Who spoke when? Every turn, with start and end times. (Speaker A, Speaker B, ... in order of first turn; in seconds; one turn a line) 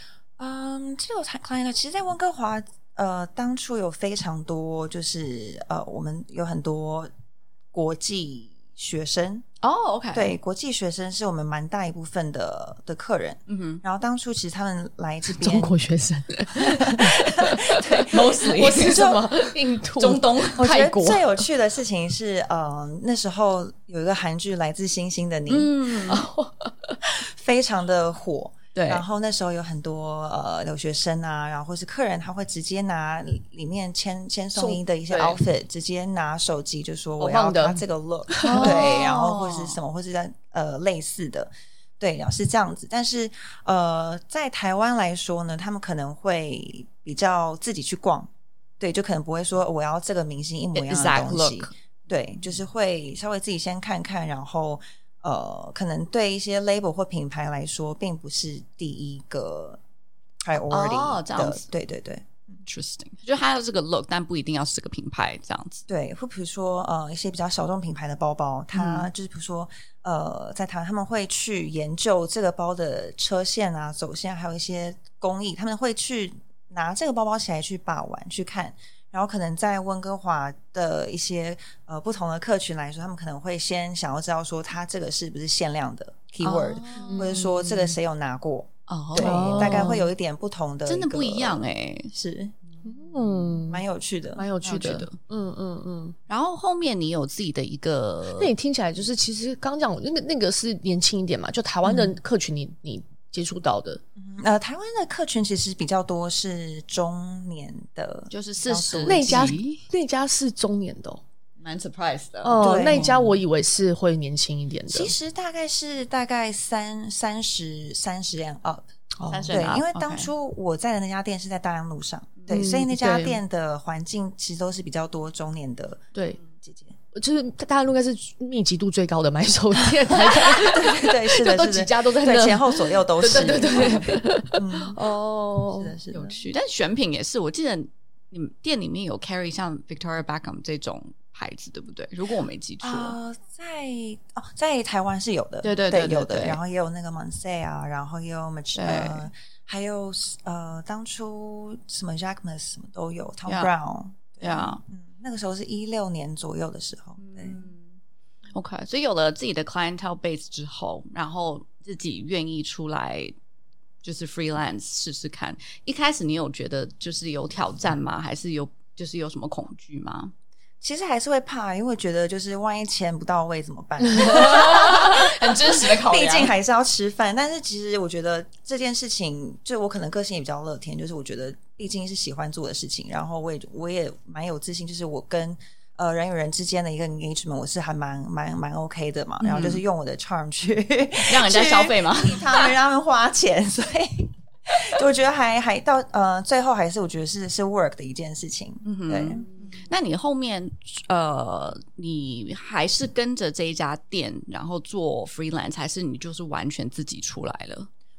Speaker A: 0.4-7.1
Speaker A: 7.7-9.4
Speaker B: 9.6-10.3
Speaker A: 10.1-15.7
Speaker B: 13.5-13.8
Speaker C: 15.3-21.4
Speaker A: 16.6-19.3
Speaker B: 17.9-20.7
Speaker A: 20.6-25.7
Speaker B: 25.5-26.3
Speaker C: 26.1-27.0
Speaker A: 27.0-59.8
Speaker B: 28.7-29.0
Speaker C: 37.2-38.9
Speaker B: 38.4-39.8
Speaker B: 50.7-51.7
Speaker A: 60.4-62.6
Speaker B: 60.7-61.6
Speaker B: 62.6-65.8
Speaker A: 65.9-92.5
Speaker B: 68.7-69.1
Speaker B: 86.4-87.9
Speaker C: 87.0-87.5
Speaker B: 88.9-90.0
Speaker C: 89.2-90.1
Speaker B: 90.8-92.1
Speaker B: 92.8-93.6
Speaker C: 92.8-93.8
Speaker A: 93.7-94.5
Speaker C: 94.3-96.2
Speaker B: 94.6-95.2
Speaker B: 96.3-98.5
Speaker C: 98.4-104.0
Speaker A: 104.2-109.6
Speaker B: 108.3-109.8
Speaker C: 109.1-111.2
Speaker B: 111.6-113.3
Speaker C: 112.4-115.1
Speaker A: 112.6-113.2
Speaker A: 114.9-118.8
Speaker C: 119.2-119.6
Speaker B: 119.3-120.3
Speaker A: 119.5-126.0
Speaker C: 122.5-123.4
Speaker A: 126.6-126.9
Speaker C: 127.1-135.9
Speaker A: 130.1-135.0
Speaker B: 133.3-134.0
Speaker A: 135.7-136.4
Speaker B: 136.1-143.2
Speaker A: 142.8-157.6
Speaker B: 145.6-146.6
Speaker B: 148.7-149.3
Speaker B: 154.4-154.8
Speaker B: 157.2-157.9
Speaker B: 158.5-163.3
Speaker B: 164.0-170.3
Speaker A: 170.8-199.4
Speaker B: 174.2-176.5
Speaker B: 189.4-189.8
Speaker B: 191.3-192.8
Speaker B: 198.8-207.9